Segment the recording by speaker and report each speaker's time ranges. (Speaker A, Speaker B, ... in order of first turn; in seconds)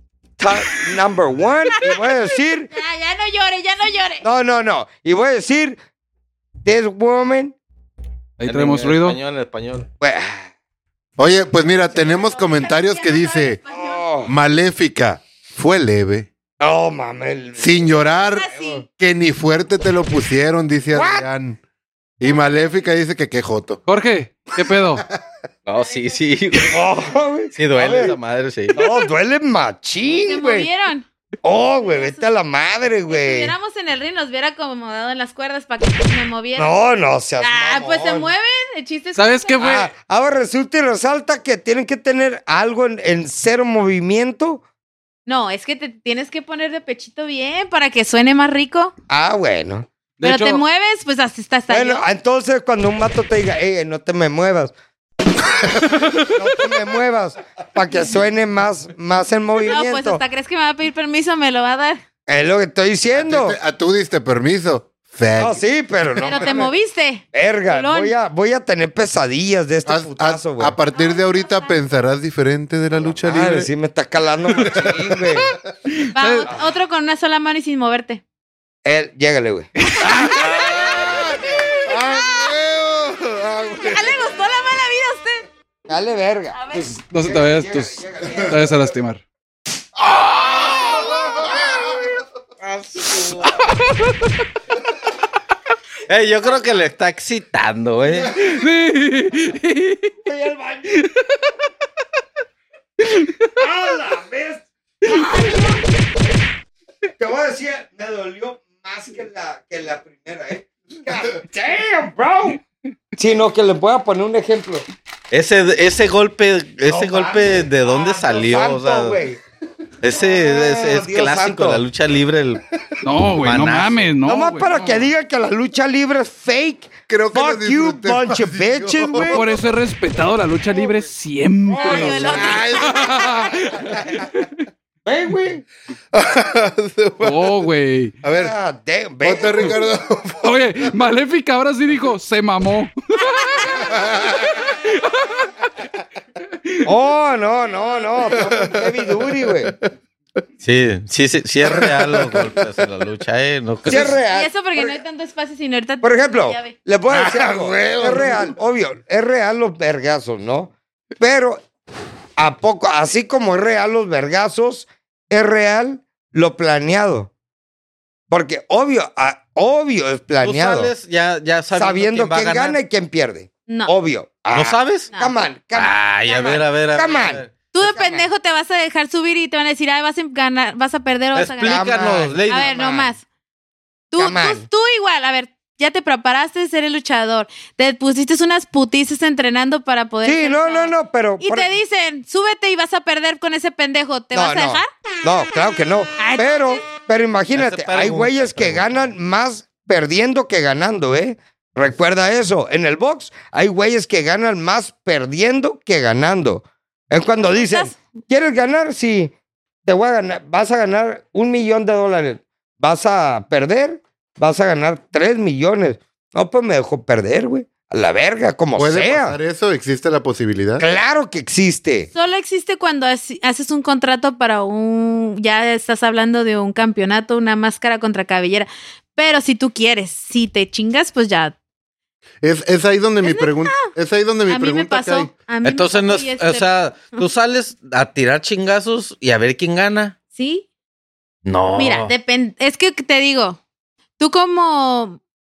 Speaker A: 0.4-2.7, 4.2-5.8, 6.6-7.5, 10.0-10.5, 13.7-14.3, 16.6-18.8, 20.9-21.3, 26.6-28.2, 28.7-30.7, 31.4-33.5, 36.5-38.3, 39.6-44.6, 49.1-49.9, 51.7-54.7, 56.1-60.2, 62.3-63.6, 65.4-66.7, 67.3-70.7, 73.2-75.5, 78.8-79.7, 85.9-86.6, 87.2-88.6, 100.2-101.0, 103.6-105.9, 107.2-112.6, 113.2-114.8, 116.9-119.4, 120.1-121.8, 124.2-129.4, 131.8-132.5, 135.0-135.7, 138.3-139.7, 146.8-149.7, 153.8-155.0, 156.0-161.6, 162.4-167.3, 168.3-170.9, 171.7-178.3, 181.6-183.1, 184.2-184.6, 190.2-191.7, 194.3-209.3, 209.8-219.4, 220.8-222.1
Speaker B: 2.7-4.2, 11.9-14.0, 18.3-18.8, 30.2-31.1, 31.8-32.2, 33.1-36.7, 37.4-39.6, 45.2-48.9, 50.2-52.0, 59.6-62.0, 66.2-68.1, 70.9-71.7, 76.1-78.2, 80.1-82.5, 83.7-85.4, 86.5-86.9, 131.7-133.3, 143.3-143.9, 147.7-148.1, 154.3-156.7, 176.3-176.6, 177.7-181.9, 182.4-183.2, 184.1-194.9, 196.2-196.8, 207.4-208.0, 222.1-231.5, 233.2-233.9, 234.5-237.3, 240.3-240.6, 241.7-243.6, 244.2-245.2
Speaker C: 8.4-9.2, 23.9-25.1, 39.1-39.9, 50.2-50.6, 75.9-76.5, 80.0-80.3, 86.7-89.2, 93.7-94.0, 98.3-100.1, 123.0-125.1, 129.3-134.6, 137.2-138.2, 140.4-143.6, 144.9-145.5
Speaker D: 8.4-9.9, 25.6-26.9, 27.5-28.8, 92.6-93.5, 96.1-98.4, 115.3-119.2, 120.0-122.6, 123.4-124.1, 150.6-154.2, 170.4-172.8, 174.5-175.1, 175.7-177.7, 181.3-182.8, 197.5-199.1, 235.6-240.2, 241.4-242.1
Speaker E: 11.2-13.6, 14.2-16.3, 17.6-21.6, 22.2-23.8, 63.1-65.6, 69.8-73.7, 80.0-84.3, 127.1-129.4, 131.8-133.2, 136.1-137.7, 138.2-138.5, 139.2-140.5, 143.7-144.6, 148.7-149.1, 151.7-152.7, 157.1-158.5, 218.8-220.8, 232.4-235.3